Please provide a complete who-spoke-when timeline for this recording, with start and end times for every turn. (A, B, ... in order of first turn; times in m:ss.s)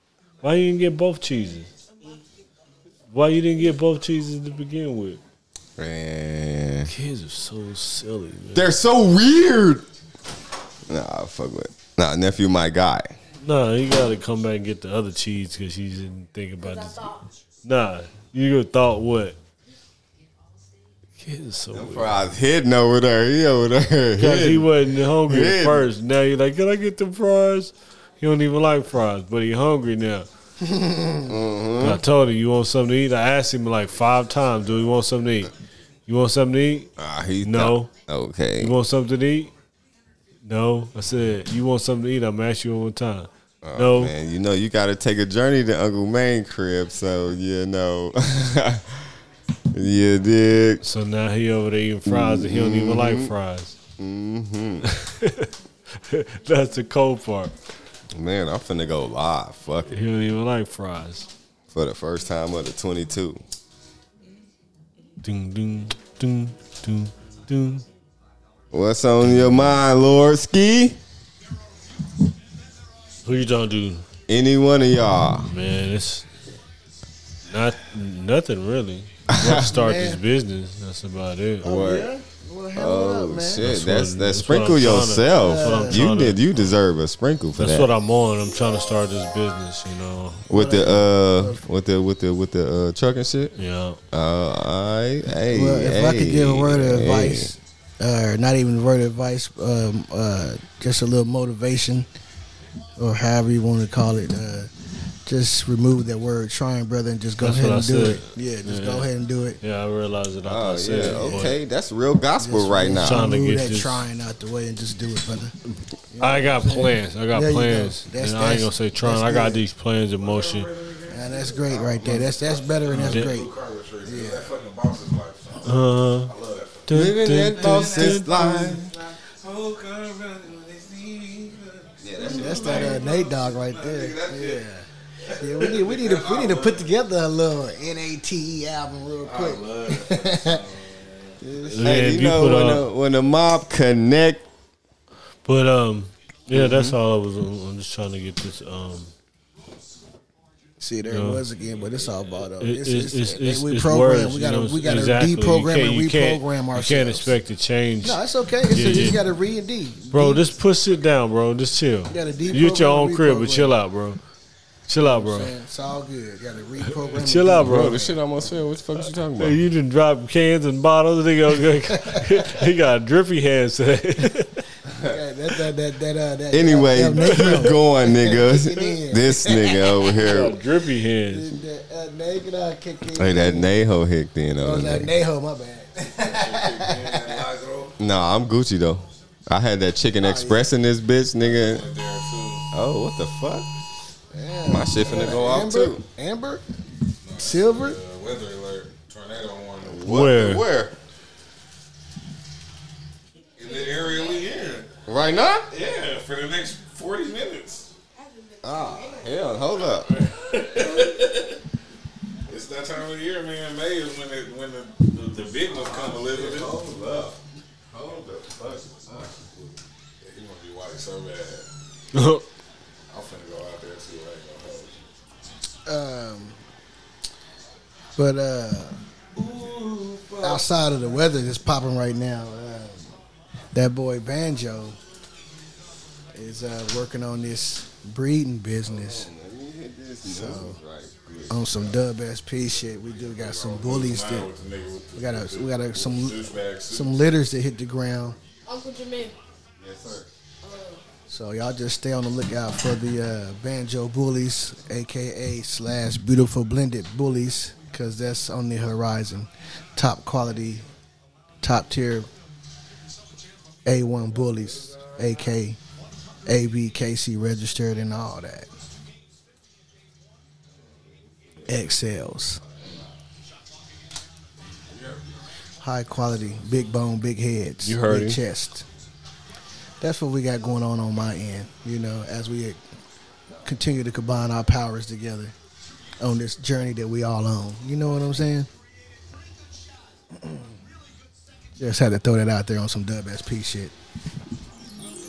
0:00.4-0:01.7 A
0:03.1-0:05.2 A
0:05.8-0:06.9 B
0:06.9-0:08.7 A
0:08.5-0:09.9 B
0:10.9-0:13.1 B
0:13.4-0:17.1 A
0:16.6-0:17.3 C
0:17.6-0:19.4 A
0:21.2-0:22.2 A
0:21.7-0:25.9 B
0:24.2-0:30.3 A
0:30.6-0:31.3 D
0:31.2-0:32.0 B
0:31.8-0:35.5 A
0:36.1-0:36.9 A
0:37.0-0:38.8 B
0:37.4-0:37.9 A
0:38.6-0:39.5 A
0:40.4-0:44.1 A
0:43.6-0:49.1 B
0:49.7-0:50.8 B
0:50.8-0:53.8 A
0:52.1-0:53.3 B
0:54.0-0:54.8 B
0:54.9-0:57.5 A
0:58.1-1:00.0 B
0:59.9-1:01.3 A
1:01.7-1:03.4 B
1:05.2-1:07.8 A
1:08.7-1:11.0 B
1:09.3-1:09.7 A
1:13.2-1:14.0 A
1:14.3-1:15.5 B
1:15.4-1:16.3 A
1:17.5-1:21.7 A
1:19.3-1:19.7 B
1:19.6-1:20.2 D
1:21.6-1:23.7 D
1:21.6-1:22.1 B
1:22.8-1:27.9 B
1:23.6-1:26.7 A
1:25.3-1:26.1 D
1:27.6-1:30.5 A
1:30.5-1:33.5 B
1:30.5-1:31.6 D
1:33.6-1:34.0 A
1:34.1-1:37.5 B
1:35.5-1:42.1 D
1:43.0-1:44.7 D
1:45.3-1:49.6 D
1:47.4-1:49.1 A
1:49.6-1:51.6 A
1:50.4-1:53.2 B
1:51.0-1:51.5 D
1:52.4-1:55.6 D
1:53.0-1:54.0 A
1:56.1-1:59.6 D
1:56.2-2:00.7 A
2:00.2-2:14.6 E
2:01.1-2:03.5 D
2:02.9-2:03.3 A
2:04.0-2:04.5 D
2:05.6-2:06.3 A
2:06.9-2:08.8 A
2:06.9-2:08.9 B
2:12.0-2:13.0 B
2:12.2-2:20.6 D
2:15.2-2:16.9 E
2:19.2-2:21.5 E
2:21.4-2:22.1 D
2:21.6-2:22.9 A
2:21.8-2:24.5 B
2:25.4-2:29.1 A
2:26.5-2:27.0 B
2:30.8-2:37.4 D
2:31.1-2:31.4 A
2:32.6-2:39.2 A
2:38.0-2:40.6 D
2:40.1-2:44.2 A
2:42.1-2:43.8 D
2:44.9-2:45.5 A
2:45.0-2:48.2 D
2:47.1-2:48.1 A
2:47.6-2:49.6 B
2:49.4-2:54.6 A
2:51.9-2:52.6 D
2:55.0-3:00.2 D
2:56.5-3:00.6 B
2:57.2-2:57.7 A
3:00.1-3:01.5 A
3:01.3-3:03.7 D
3:03.2-3:05.1 B
3:04.6-3:07.4 D
3:06.1-3:08.0 E
3:08.0-3:11.9 B
3:10.2-3:10.7 D
3:11.4-3:12.6 E
3:12.7-3:13.7 B
3:14.3-3:16.6 D
3:14.7-3:16.0 B
3:17.2-3:20.0 E
3:17.4-3:18.0 D
3:19.8-3:21.0 B
3:20.0-3:20.6 A
3:23.6-3:24.7 C
3:23.6-3:24.9 E
3:25.1-3:25.7 B
3:25.7-3:27.9 E
3:28.1-3:29.8 C
3:28.6-3:30.1 B
3:29.9-3:31.6 E
3:32.5-3:36.9 E
3:35.8-3:37.4 B
3:37.9-3:39.3 B
3:38.8-3:41.7 E
3:42.1-3:42.4 A
3:43.1-3:45.1 E
3:45.9-3:46.6 D
3:48.2-3:49.0 D
3:49.3-3:51.2 E
3:50.4-3:53.1 D
3:53.7-3:55.0 D
3:56.3-3:59.3 D
3:58.9-4:01.9 B
4:00.2-4:00.8 D
4:01.5-4:04.5 D
4:03.1-4:07.2 E
4:05.2-4:08.4 D
4:08.7-4:09.4 C
4:09.8-4:10.3 B
4:10.6-4:11.0 C
4:11.3-4:20.8 D
4:21.6-4:22.3 D
4:23.8-4:25.8 D
4:26.5-4:28.7 D
4:31.7-4:32.6 D
4:34.9-4:35.2 E
4:35.8-4:38.9 D
4:37.8-4:38.4 A
4:40.0-4:42.8 D
4:43.6-4:45.5 D
4:46.2-4:48.7 D
4:50.3-4:50.8 D
4:51.8-4:53.9 D